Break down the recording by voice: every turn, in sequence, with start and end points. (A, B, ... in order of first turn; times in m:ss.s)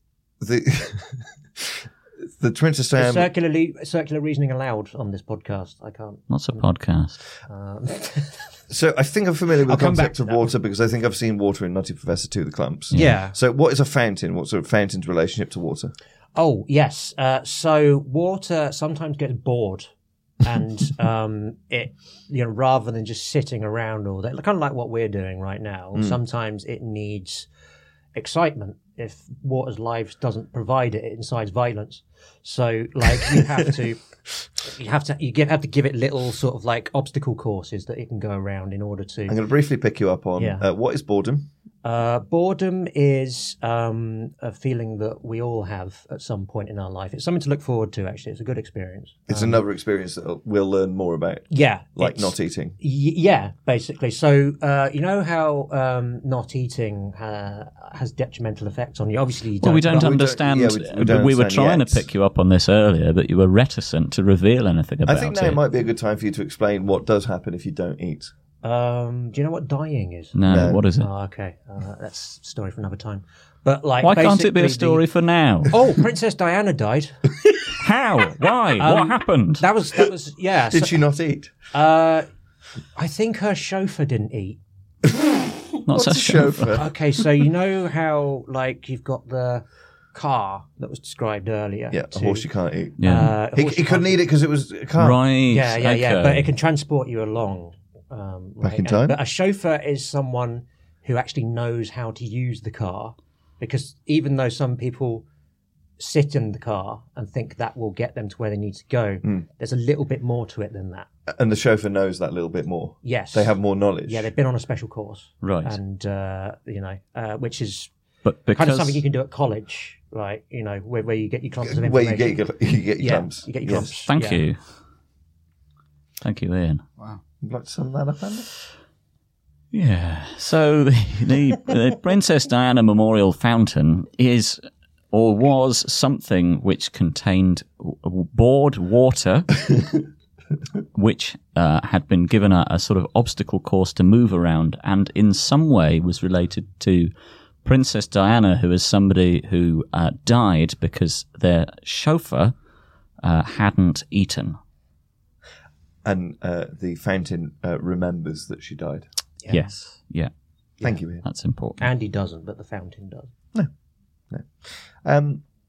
0:00.4-0:03.3 A
0:03.0-0:06.7 B
0:06.3-0:07.2 C
0:07.5-0:08.6 B
0:08.7-0:15.9 A
0:09.6-0:10.4 B
0:12.9-0:13.4 B
0:16.3-0:19.9 B
0:20.4-0:27.5 B
0:25.9-0:26.2 A
0:28.1-0:34.0 B
0:34.6-0:39.4 B
0:39.3-0:41.5 A
0:40.4-0:40.7 B
0:41.8-0:49.6 B
0:49.3-0:52.8 A
0:51.5-1:00.1 B
0:59.6-1:05.6 C
0:59.8-1:02.0 A
1:05.0-1:08.3 A
1:08.6-1:15.0 B
1:10.3-1:11.1 C
1:10.5-1:10.8 A
1:14.0-1:15.7 C
1:15.7-1:17.3 B
1:17.8-1:19.6 C
1:18.8-1:21.0 B
1:20.7-1:21.5 A
1:21.7-1:22.3 B
1:22.9-1:24.6 B
1:25.1-1:26.9 A
1:25.8-1:26.8 C
1:26.7-1:32.5 B
1:31.9-1:35.2 A
1:33.0-1:33.4 C
1:33.0-1:34.2 B
1:35.0-1:36.5 C
1:35.5-1:45.2 B
1:38.6-1:39.2 A
1:46.0-1:51.1 B
1:51.3-1:54.3 A
1:53.0-1:53.5 B
1:54.0-1:57.9 B
1:55.4-1:55.8 C
1:58.2-1:59.0 C
1:58.5-2:02.4 B
2:01.6-2:03.9 A
2:03.0-2:04.4 B
2:04.1-2:04.6 C
2:06.2-2:06.8 C
2:07.4-2:08.5 A
2:09.7-2:14.6 C
2:15.1-2:19.6 C
2:20.9-2:27.1 C
2:27.6-2:32.5 C
2:33.2-2:34.6 C
2:36.0-2:39.1 A
2:39.4-2:39.7 B
2:39.5-2:40.3 C
2:40.8-2:41.2 A
2:41.2-2:41.9 C
2:41.8-2:43.3 B
2:44.3-2:45.4 A